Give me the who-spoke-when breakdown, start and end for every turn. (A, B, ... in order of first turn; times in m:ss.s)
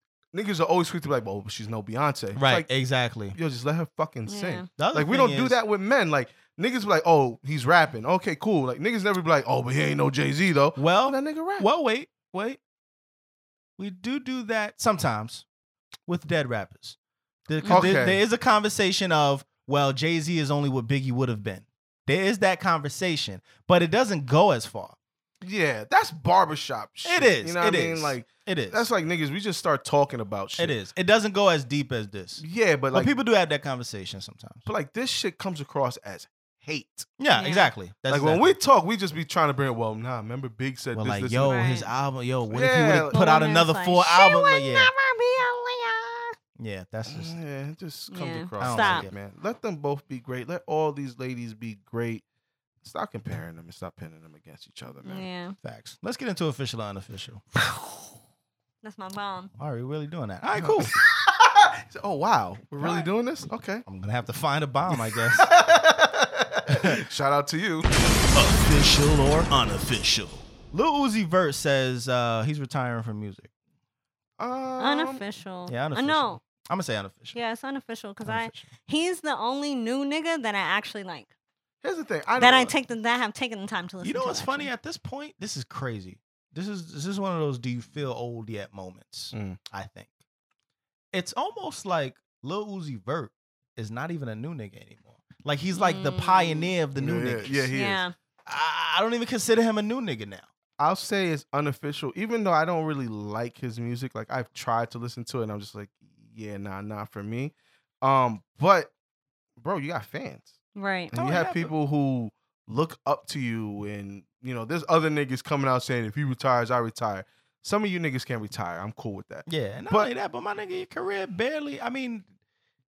0:00.3-0:02.7 A
0:02.4-0:03.4 B
0:03.3-0:11.7 A
0:04.3-0:04.7 C
0:04.8-0:05.6 B
0:10.8-0:12.6 B
0:13.8-0:15.4 B
0:16.1-0:17.0 B
0:17.5-0:25.0 B
0:17.6-0:17.9 C
0:17.7-0:18.2 A
0:25.4-0:30.8 A
0:27.0-0:28.9 B
0:30.6-0:34.7 B
0:32.4-0:33.1 A
0:34.7-0:37.1 A
0:37.2-0:38.5 B
0:37.4-0:37.7 C
0:38.1-0:41.6 A
0:40.9-0:44.9 B
0:41.5-0:41.9 C
0:42.5-0:43.2 A
0:43.1-0:46.4 C
0:46.6-0:47.4 B
0:47.1-0:52.2 A
0:48.1-0:49.1 C
0:48.6-0:49.1 B
0:52.8-0:55.3 A
0:55.0-0:55.6 C
0:55.6-0:57.4 B
0:58.8-0:59.5 C
0:59.6-1:00.9 B
1:00.6-1:03.8 A
1:03.8-1:05.5 B
1:04.9-1:07.9 A
1:06.7-1:07.0 B
1:08.3-1:13.5 B
1:14.4-1:15.2 A
1:14.8-1:16.4 C
1:15.7-1:17.4 B
1:17.3-1:21.3 C
1:18.2-1:18.7 B
1:21.8-1:22.7 A
1:22.4-1:24.7 C
1:24.0-1:30.1 B
1:29.3-1:29.6 A
1:31.1-1:37.7 B
1:35.7-1:36.7 C
1:37.0-1:38.0 A
1:37.7-1:38.1 C
1:38.5-1:40.5 B
1:40.8-1:48.9 A
1:49.6-1:50.5 A
1:50.8-1:51.1 C
1:51.1-2:00.1 A
1:51.1-1:51.7 B
1:59.5-2:02.3 B